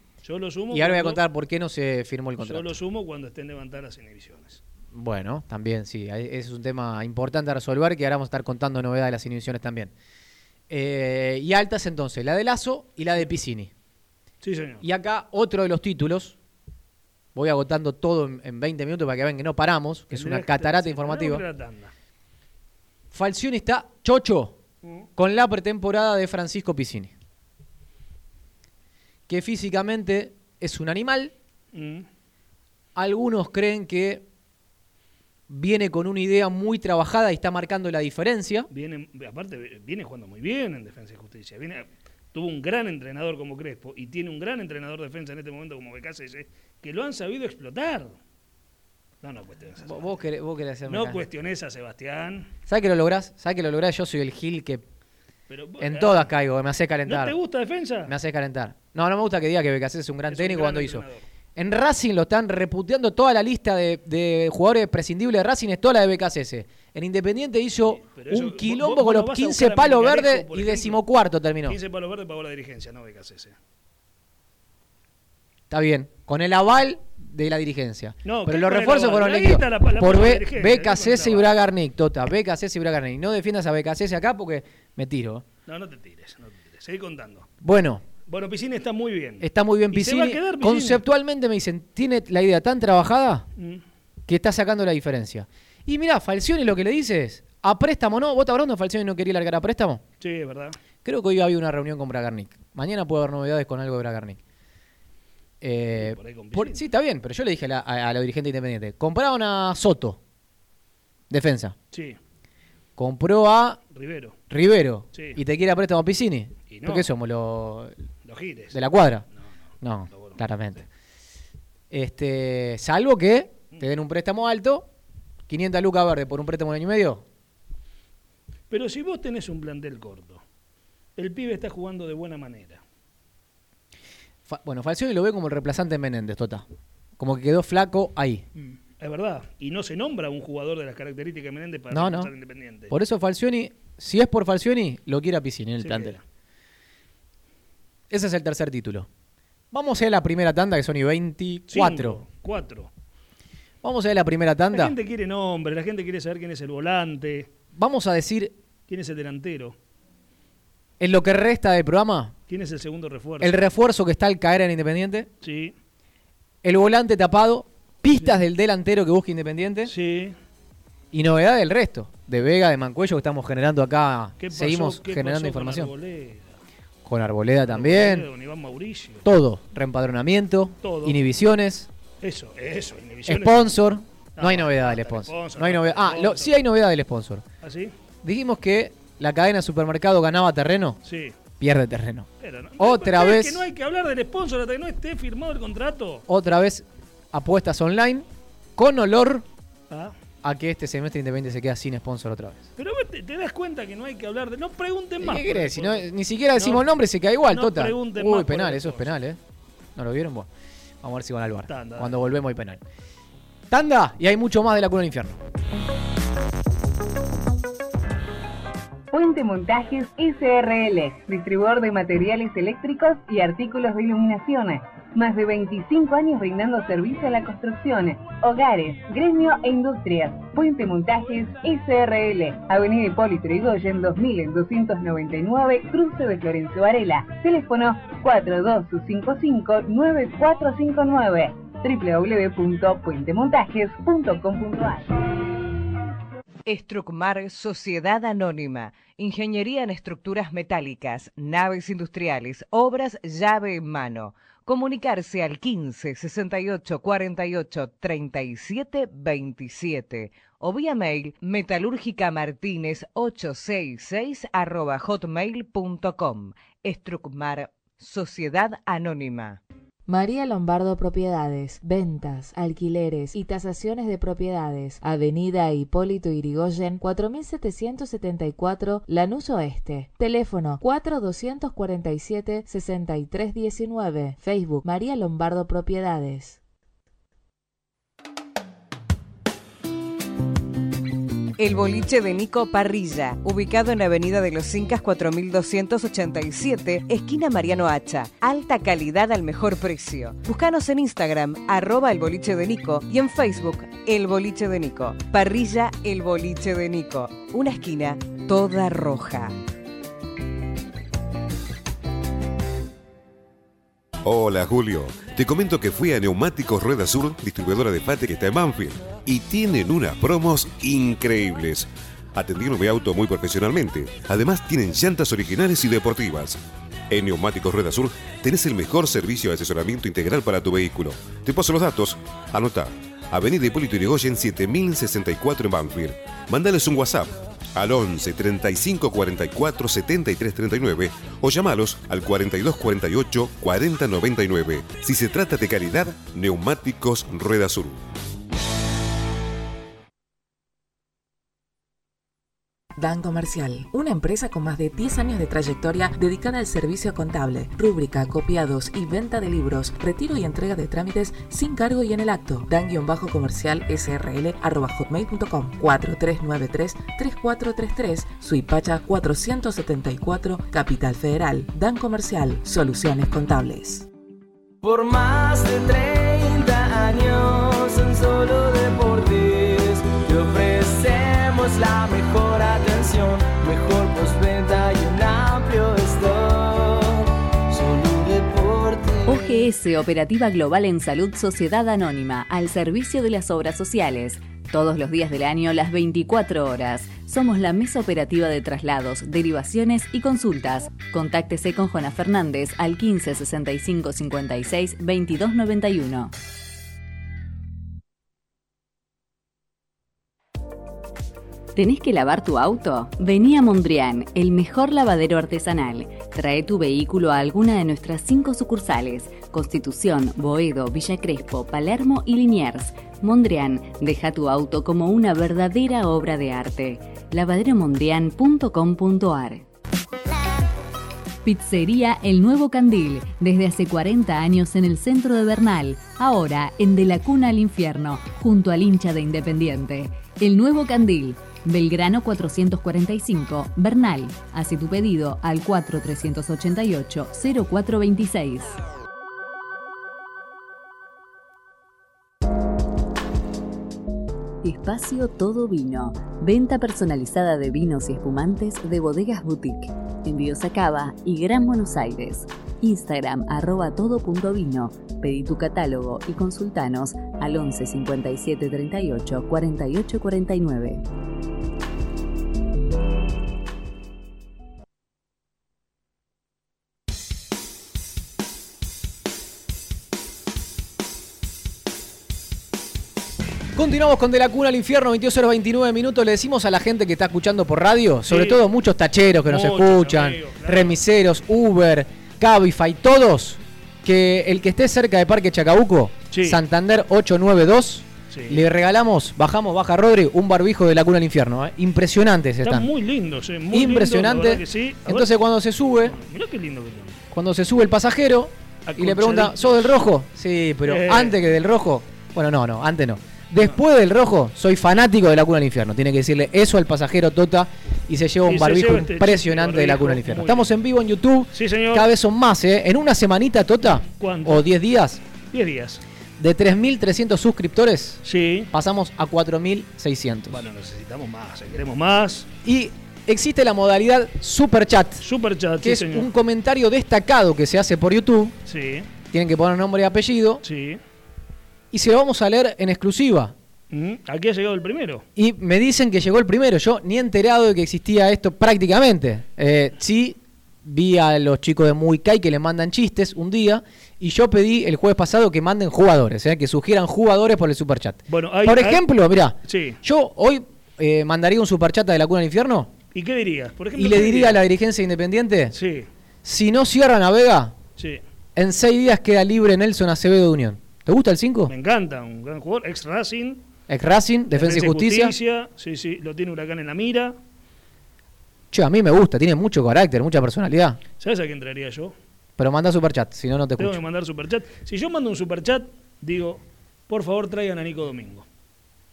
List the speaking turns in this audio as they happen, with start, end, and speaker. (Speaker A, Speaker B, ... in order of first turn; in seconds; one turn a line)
Speaker A: 0.2-1.2
Speaker B: 0.7-2.8
Speaker A: 2.4-4.6
Speaker B: 4.9-9.9
Speaker B: 10.7-13.7
Speaker A: 14.4-14.8
Speaker B: 14.8-16.4
Speaker B: 17.4-21.4
Speaker A: 20.1-21.9
Speaker B: 23.1-24.6
Speaker A: 24.8-25.1
Speaker B: 25.2-27.1
Speaker B: 29.3-31.3
Speaker A: 31.7-32.1
Speaker B: 33.0-34.2
Speaker B: 35.5-38.7
Speaker A: 38.7-48.2
Speaker A: 49.2-50.1
Speaker B: 49.8-51.2
Speaker A: 50.9-52.5
Speaker B: 52.7-54.8
Speaker A: 55.5-56.3
Speaker B: 55.8-57.4
Speaker A: 57.1-58.1
Speaker B: 58.1-71.8
Speaker A: 60.3-61.2
Speaker A: 67.9-71.0
Speaker A: 71.7-73.6
Speaker B: 75.7-85.4
Speaker A: 78.2-81.5
Speaker A: 85.7-87.5
Speaker B: 87.6-88.0
Speaker A: 88.3-91.0
Speaker B: 89.4-93.5
Speaker A: 93.6-93.8
Speaker B: 94.3-100.0
Speaker A: 100.2-100.8
Speaker B: 101.0-104.4
Speaker B: 105.6-110.2
Speaker A: 106.0-106.8
Speaker B: 111.3-111.8
Speaker A: 111.9-112.2
Speaker B: 113.0-113.8
Speaker A: 113.9-114.4
Speaker B: 114.5-117.9
Speaker A: 115.1-115.4
Speaker A: 116.7-117.1
Speaker A: 118.2-118.8
Speaker B: 118.7-119.2
Speaker B: 119.8-120.9
Speaker A: 120.1-120.4
Speaker B: 121.9-124.9
Speaker B: 125.5-127.2
Speaker A: 128.7-130.4
Speaker A: 131.2-132.8
Speaker B: 134.5-136.7
Speaker B: 137.2-138.4
Speaker A: 138.6-142.9
Speaker B: 141.9-142.3
Speaker B: 142.9-146.2
Speaker A: 145.8-146.2
Speaker B: 148.1-149.1
Speaker B: 149.7-152.2
Speaker A: 151.7-152.9
Speaker B: 153.8-155.0
Speaker A: 154.7-157.5
Speaker B: 157.8-158.6
Speaker A: 158.9-159.8
Speaker B: 161.0-162.3
Speaker A: 162.5-163.6
Speaker B: 163.4-165.3
Speaker A: 165.4-165.8
Speaker B: 166.6-169.9
Speaker A: 169.9-170.3
Speaker B: 171.1-175.9
Speaker A: 174.4-176.6
Speaker B: 177.1-178.3
Speaker A: 177.7-179.2
Speaker B: 179.2-181.9
Speaker A: 180.8-181.2
Speaker A: 182.2-183.8
Speaker B: 183.3-187.4
Speaker A: 184.4-186.5
Speaker A: 187.6-187.9
Speaker B: 188.2-191.0
Speaker A: 191.0-191.3
Speaker B: 191.6-192.3
Speaker A: 192.4-196.2
Speaker B: 192.8-193.7
Speaker B: 196.3-198.3
Speaker B: 198.8-199.4
Speaker B: 200.4-202.7
Speaker A: 202.8-206.9
Speaker B: 205.2-209.4
Speaker A: 207.5-209.2
Speaker B: 210.0-210.5
Speaker B: 211.0-212.8
Speaker A: 211.7-212.2
Speaker B: 213.7-215.4
Speaker C: 219.1-245.1
Speaker D: 246.7-269.6
Speaker E: 270.1-286.6
Speaker D: 291.6-309.6
Speaker F: 314.2-348.0
Speaker G: 353.0-374.1
Speaker H: 374.8-389.6
Speaker I: 389.3-406.3
Speaker I: 411.8-429.7
Speaker I: 431.4-448.8
Speaker I: 454.6-471.0
Speaker B: 483.8-502.9
Speaker A: 488.3-488.6
Speaker A: 489.4-491.0
Speaker A: 496.3-496.6
Speaker A: 498.3-498.6
Speaker A: 502.6-505.3
Speaker B: 503.7-506.2
Speaker A: 506.0-507.2
Speaker B: 507.3-525.2
Speaker A: 508.9-509.9
Speaker A: 510.9-511.4
Speaker A: 518.5-520.7
Speaker A: 521.5-522.1
Speaker A: 524.1-524.7
Speaker A: 525.5-526.0
Speaker B: 526.4-530.6
Speaker A: 528.2-528.7
Speaker A: 530.5-532.5
Speaker B: 532.6-535.2
Speaker A: 535.2-536.3
Speaker B: 535.8-538.6
Speaker A: 538.7-539.1
Speaker B: 539.3-540.6
Speaker A: 540.6-541.0
Speaker B: 541.9-543.5
Speaker A: 543.9-545.2
Speaker B: 545.4-562.9
Speaker A: 558.3-559.1
Speaker A: 559.6-560.0
Speaker A: 563.1-564.6
Speaker B: 564.0-565.8
Speaker A: 565.7-566.1
Speaker B: 566.4-567.8
Speaker B: 568.6-571.7
Speaker A: 571.7-573.6
Speaker B: 573.9-575.3
Speaker A: 574.5-577.4
Speaker B: 578.7-581.0
Speaker A: 581.2-582.1
Speaker B: 582.6-584.0
Speaker A: 583.8-588.5